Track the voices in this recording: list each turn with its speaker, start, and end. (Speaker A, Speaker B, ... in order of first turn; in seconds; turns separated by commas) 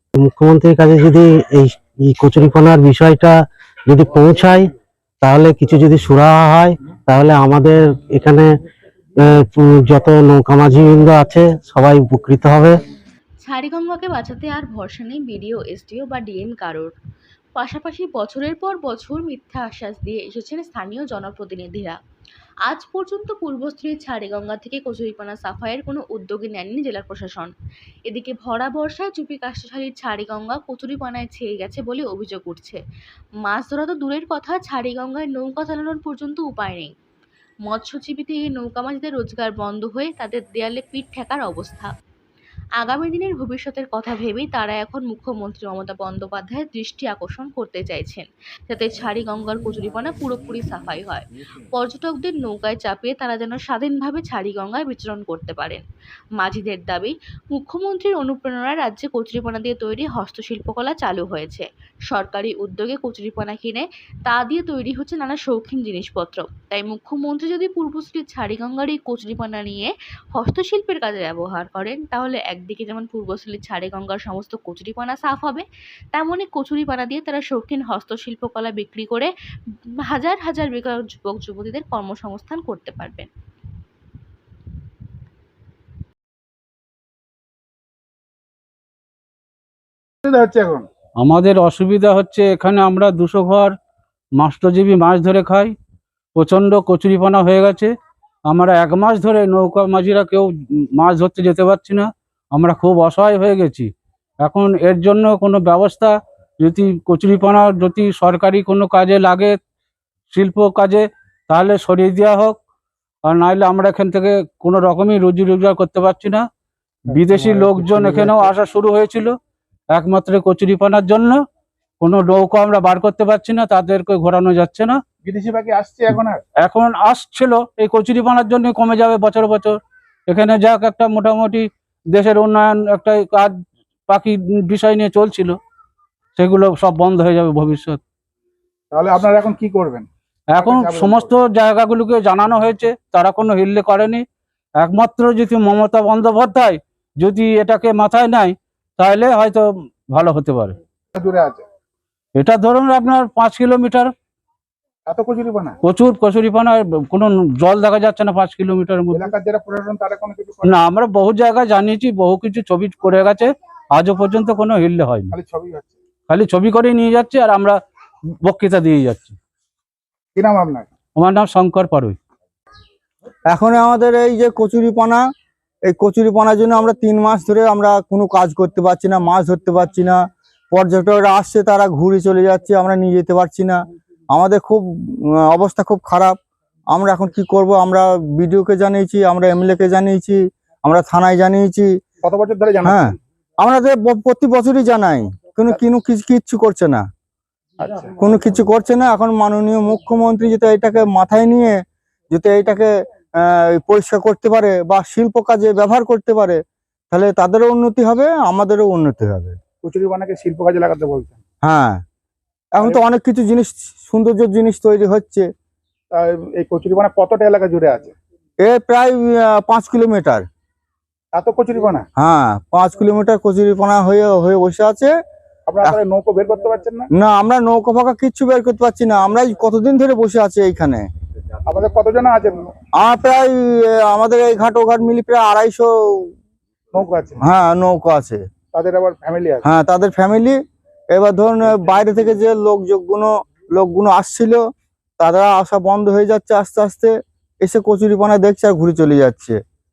Speaker A: 0.2-3.4, Speaker A: 3.9-4.7, Speaker A: 5.2-8.5, Speaker A: 9.2-12.8, Speaker B: 13.4-16.9, Speaker B: 17.6-22.0, Speaker B: 22.6-27.5, Speaker B: 28.1-32.8, Speaker B: 33.4-36.9, Speaker B: 37.7-41.9, Speaker B: 42.8-55.8, Speaker B: 56.4-79.3, Speaker B: 80.0-83.3, Speaker C: 90.2-90.9, Speaker D: 91.2-93.7, Speaker D: 94.4-95.7, Speaker D: 96.3-97.9, Speaker D: 98.5-103.9, Speaker D: 104.4-109.6, Speaker D: 110.3-112.5, Speaker D: 113.2-116.4, Speaker C: 117.0-118.5, Speaker D: 117.1-119.3, Speaker D: 119.9-121.4, Speaker D: 122.0-125.0, Speaker C: 125.2-126.4, Speaker D: 126.6-133.5, Speaker D: 134.1-135.6, Speaker D: 136.4-138.0, Speaker C: 138.9-140.1, Speaker D: 140.5-144.2, Speaker C: 140.6-141.3, Speaker D: 144.8-150.8, Speaker C: 151.1-151.6, Speaker D: 152.3-154.1, Speaker C: 155.1-155.8, Speaker D: 155.8-159.3, Speaker C: 159.1-160.7, Speaker D: 160.6-165.3, Speaker C: 165.3-166.0, Speaker D: 166.3-167.8, Speaker D: 168.4-169.3, Speaker C: 170.3-170.9, Speaker D: 171.2-172.2, Speaker E: 173.5-175.2, Speaker E: 175.9-186.4, Speaker E: 186.9-192.0, Speaker C: 192.2-193.1, Speaker E: 192.8-197.1, Speaker C: 197.8-198.2, Speaker E: 198.2-209.6, Speaker C: 209.8-211.4, Speaker E: 211.6-212.0, Speaker E: 212.7-215.5, Speaker C: 216.1-218.1, Speaker E: 218.6-220.4, Speaker C: 221.3-222.1, Speaker E: 222.2-225.1, Speaker C: 225.7-227.1, Speaker E: 227.2-231.1, Speaker C: 231.7-232.7, Speaker E: 232.9-236.3, Speaker C: 236.9-237.4, Speaker E: 237.4-238.4, Speaker C: 238.7-239.7, Speaker E: 239.6-240.6, Speaker E: 241.1-244.6, Speaker E: 245.2-249.6